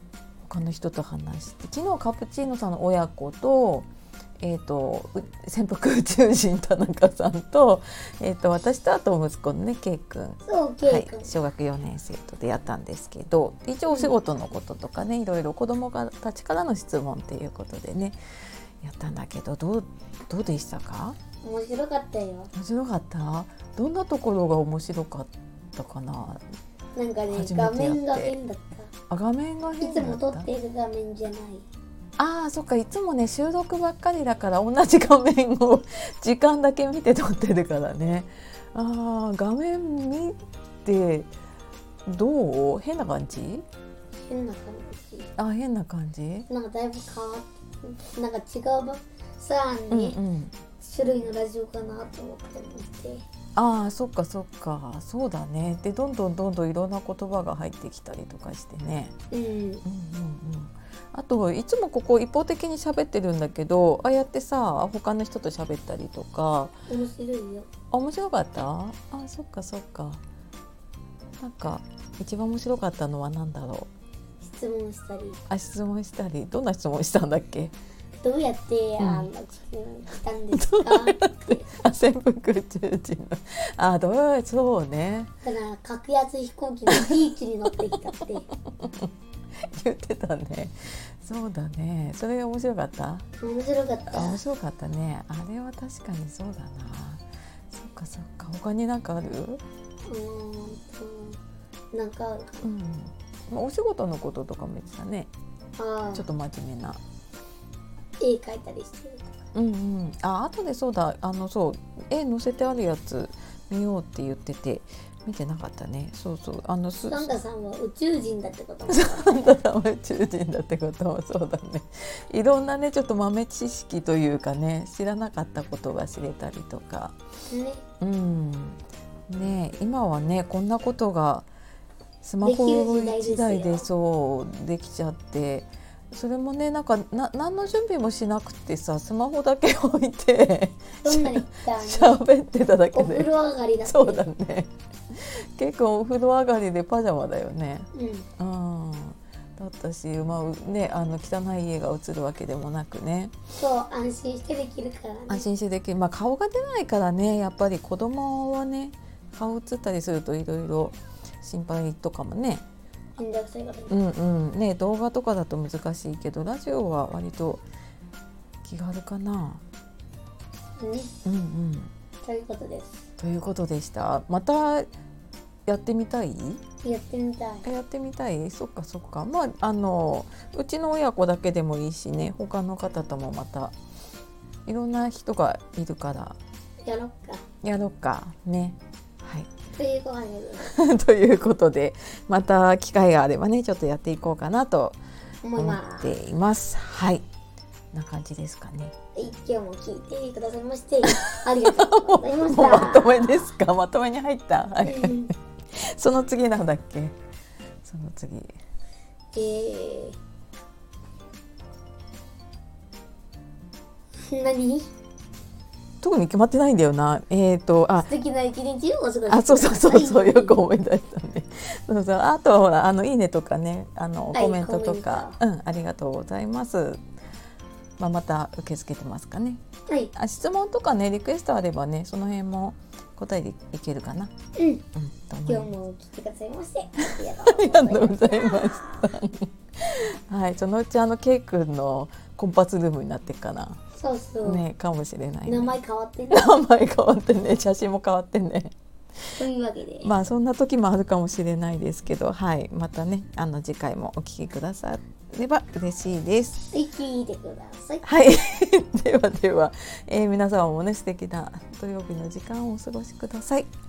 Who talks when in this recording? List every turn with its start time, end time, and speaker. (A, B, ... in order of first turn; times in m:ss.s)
0:00.4-0:03.9 A
0:04.4-0:18.2 A
0:10.4-0:11.3 B
0:18.8-0:21.2 A
0:21.4-0:22.5 B
0:22.5-0:26.4 A
0:27.0-0:28.9 B
0:27.3-0:28.3 A
0:29.1-0:30.5 A
0:29.8-0:31.6 B
0:32.2-0:41.3 A
0:42.1-0:43.6 A
0:44.2-0:45.3 B
0:45.4-0:46.5 A
0:46.5-0:50.2 B
0:49.9-0:50.5 A
0:50.8-0:53.3 B
0:53.6-0:59.1 A
0:59.3-0:59.8 B
0:59.8-1:06.7 A
1:06.9-1:07.7 B
1:07.9-1:10.2 A
1:11.4-1:13.9 A
1:14.4-1:15.4 B
1:15.5-1:17.7 A
1:18.2-1:21.7 B
1:19.0-1:19.3 A
1:20.5-1:25.3 A
1:25.4-1:28.5 B
1:28.7-1:33.3 A
1:33.4-1:34.4 B
1:34.1-1:39.6 A
1:40.1-1:41.4 B
1:41.9-1:42.6 B
1:42.6-1:45.3 A
1:45.8-1:46.3 B
1:46.1-1:47.0 A
1:48.2-1:49.4 B
1:49.5-1:57.4 A
1:57.1-1:59.3 B
1:58.9-2:07.2 A
2:07.5-2:07.8 B
2:08.0-2:11.5 A
2:12.2-2:23.3 A
2:12.4-2:13.9 B
2:21.0-2:22.2 B
2:22.9-2:24.2 B
2:23.8-2:33.3 A
2:27.9-2:28.3 B
2:33.6-2:35.5 B
2:35.3-2:42.6 A
2:43.2-2:44.0 B
2:43.9-2:47.6 A
2:48.6-2:49.6 A
2:50.8-2:51.2 B
2:51.2-2:51.9 A
2:52.2-2:53.0 B
2:53.2-2:54.9 A
2:55.7-2:56.6 A
2:56.8-2:57.7 B
2:57.6-3:03.7 A
3:04.7-3:06.4 A
3:06.8-3:07.4 B
3:07.6-3:09.5 A
3:09.8-3:10.6 B
3:10.6-3:15.0 A
3:15.4-3:16.1 B
3:15.6-3:17.2 A
3:17.9-3:18.9 A
3:19.2-3:23.5 B
3:21.0-3:27.2 A
3:24.8-3:25.3 B
3:27.8-3:28.5 A
3:29.4-3:30.2 B
3:34.2-3:34.9 B
3:36.0-3:38.1 A
3:38.1-3:40.6 B
3:39.3-3:47.0 A
3:44.3-3:45.4 B
3:48.0-3:49.6 A
3:50.2-3:54.3 A
3:54.6-3:54.8 B
3:54.9-3:55.7 A
3:55.5-3:59.1 B
3:57.1-4:03.8 A
4:04.0-4:04.6 B
4:04.4-4:05.8 A
4:05.5-4:06.5 B
4:06.3-4:08.7 A
4:09.4-4:10.1 B
4:10.0-4:16.7 A
4:16.7-4:18.0 B
4:18.0-4:23.7 A